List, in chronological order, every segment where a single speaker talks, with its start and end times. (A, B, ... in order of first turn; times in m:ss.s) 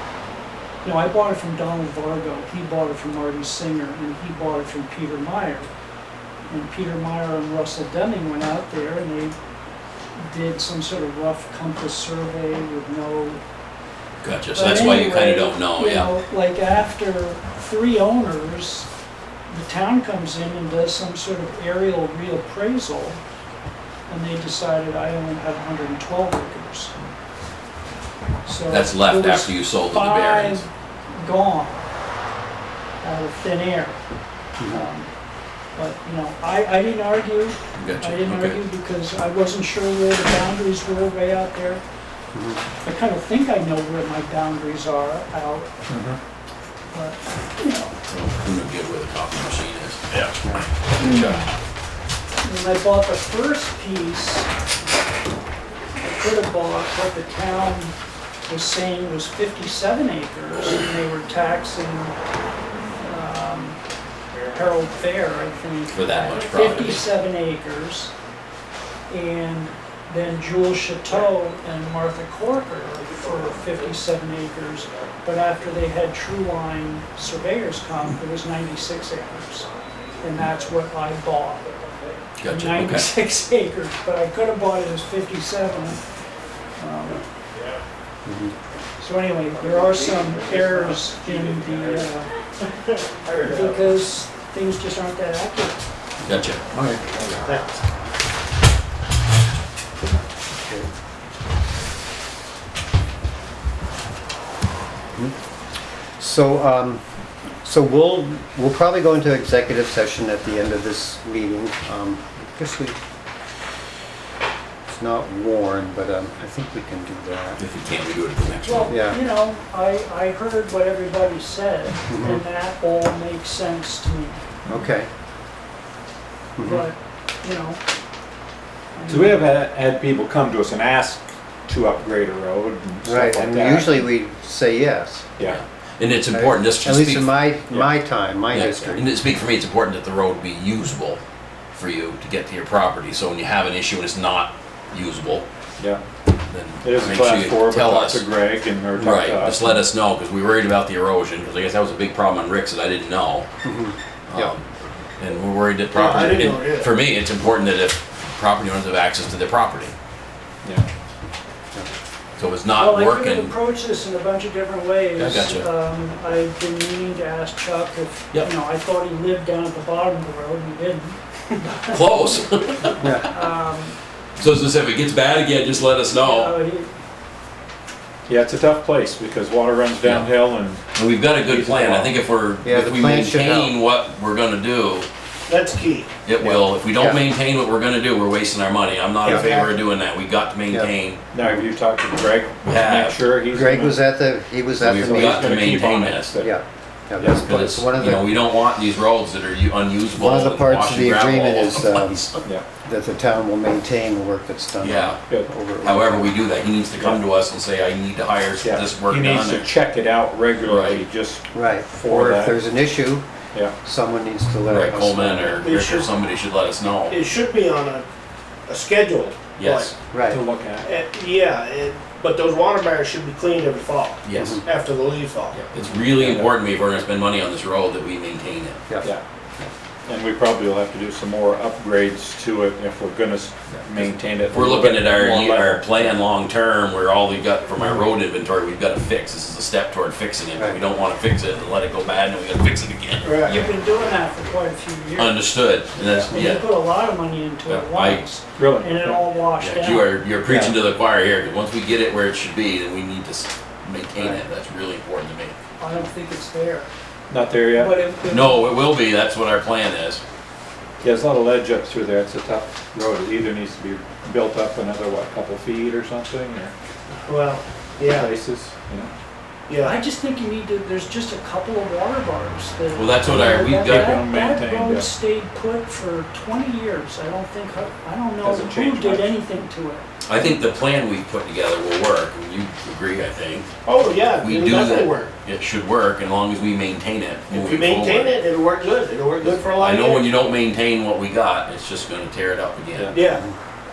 0:00.8-0:05.7 A
0:06.5-0:09.4 A
0:10.2-0:13.4 A
0:14.2-0:16.1 B
0:14.5-0:18.9 A
0:19.5-0:23.2 A
0:24.1-0:27.0 A
0:28.4-0:31.9 A
0:28.7-0:30.7 B
0:33.0-0:34.0 A
0:34.6-0:34.8 C
0:34.7-0:35.1 A
0:35.8-0:41.8 A
0:37.8-0:38.6 B
0:42.3-0:42.6 C
0:42.8-0:45.8 A
0:45.9-0:46.2 D
0:46.9-0:47.9 A
0:48.1-0:50.3 B
0:50.4-0:50.7 C
0:51.0-0:51.4 B
0:51.0-0:51.5 A
0:52.4-0:54.5 A
0:56.0-1:02.2 A
1:03.0-1:03.8 A
1:04.5-1:08.1 A
1:05.9-1:07.0 B
1:09.1-1:21.7 A
1:22.4-1:23.1 B
1:22.4-1:26.0 A
1:26.8-1:27.2 A
1:28.2-1:28.6 C
1:29.0-1:32.3 A
1:33.5-1:35.8 A
1:36.2-1:36.8 B
1:36.7-1:37.4 D
1:37.5-1:37.7 E
1:40.6-1:40.9 C
1:46.2-1:47.0 C
1:47.6-1:53.0 C
1:54.9-1:57.6 C
1:57.6-1:59.0 B
1:58.6-2:04.4 A
1:58.9-1:59.2 C
2:02.1-2:02.4 C
2:04.7-2:05.1 C
2:06.6-2:06.9 C
2:06.6-2:07.8 A
2:09.0-2:09.4 A
2:09.1-2:14.0 D
2:13.0-2:15.3 C
2:15.4-2:17.4 B
2:16.3-2:19.1 C
2:18.5-2:21.2 B
2:21.7-2:25.5 B
2:26.5-2:28.2 B
2:26.8-2:29.9 D
2:29.0-2:33.5 B
2:33.6-2:34.5 C
2:34.3-2:40.0 B
2:35.9-2:36.9 E
2:42.4-2:43.5 B
2:42.7-2:52.2 A
2:45.2-2:45.7 B
2:51.9-2:53.3 B
2:53.0-2:53.3 C
2:53.1-2:54.0 A
2:54.4-2:56.6 B
2:56.1-2:57.0 A
2:58.3-3:00.8 D
3:00.0-3:00.4 B
3:01.0-3:05.1 B
3:01.4-3:02.1 D
3:02.6-3:03.8 C
3:05.5-3:06.1 E
3:06.2-3:11.2 B
3:06.4-3:06.6 D
3:07.0-3:07.2 C
3:09.2-3:09.8 E
3:09.2-3:09.5 C
3:10.7-3:11.6 C
3:11.3-3:14.0 D
3:12.6-3:13.3 B
3:13.5-3:15.8 C
3:14.8-3:16.3 B
3:14.8-3:16.6 D
3:16.4-3:18.4 C
3:17.2-3:17.5 D
3:17.4-3:22.4 B
3:20.2-3:26.4 C
3:24.8-3:25.2 B
3:25.3-3:25.6 D
3:25.8-3:29.7 B
3:28.6-3:32.6 D
3:30.6-3:31.0 B
3:31.5-3:33.3 C
3:33.8-3:35.7 C
3:34.7-3:37.2 B
3:35.6-3:36.1 E
3:37.1-3:38.1 E
3:38.7-3:39.9 E
3:39.6-3:39.9 B
3:40.1-3:40.4 C
3:40.3-3:40.9 D
3:40.8-3:45.6 E
3:44.2-3:44.6 B
3:44.3-3:44.6 C
3:45.5-3:48.8 B
3:46.2-3:46.5 D
3:50.1-3:56.2 D
3:53.7-4:03.4 B
4:03.2-4:03.6 E
4:03.4-4:05.4 A
4:05.2-4:06.7 B
4:06.3-4:10.1 A
4:07.7-4:08.2 B
4:08.6-4:09.3 D
4:09.6-4:15.6 B
4:10.4-4:10.8 D
4:15.8-4:16.9 A
4:17.3-4:18.0 D
4:17.7-4:18.7 A
4:18.3-4:20.2 B
4:21.0-4:26.7 D
4:27.3-4:28.3 E
4:28.0-4:29.1 D
4:29.7-4:30.0 E
4:29.8-4:40.1 A
4:32.9-4:34.2 B
4:33.8-4:35.1 D
4:38.4-4:39.3 D
4:40.3-4:43.7 B
4:43.8-4:45.3 E
4:44.3-4:48.4 B
4:47.5-4:50.3 E
4:49.4-4:53.2 B
4:52.9-4:53.3 D
4:53.1-4:53.4 E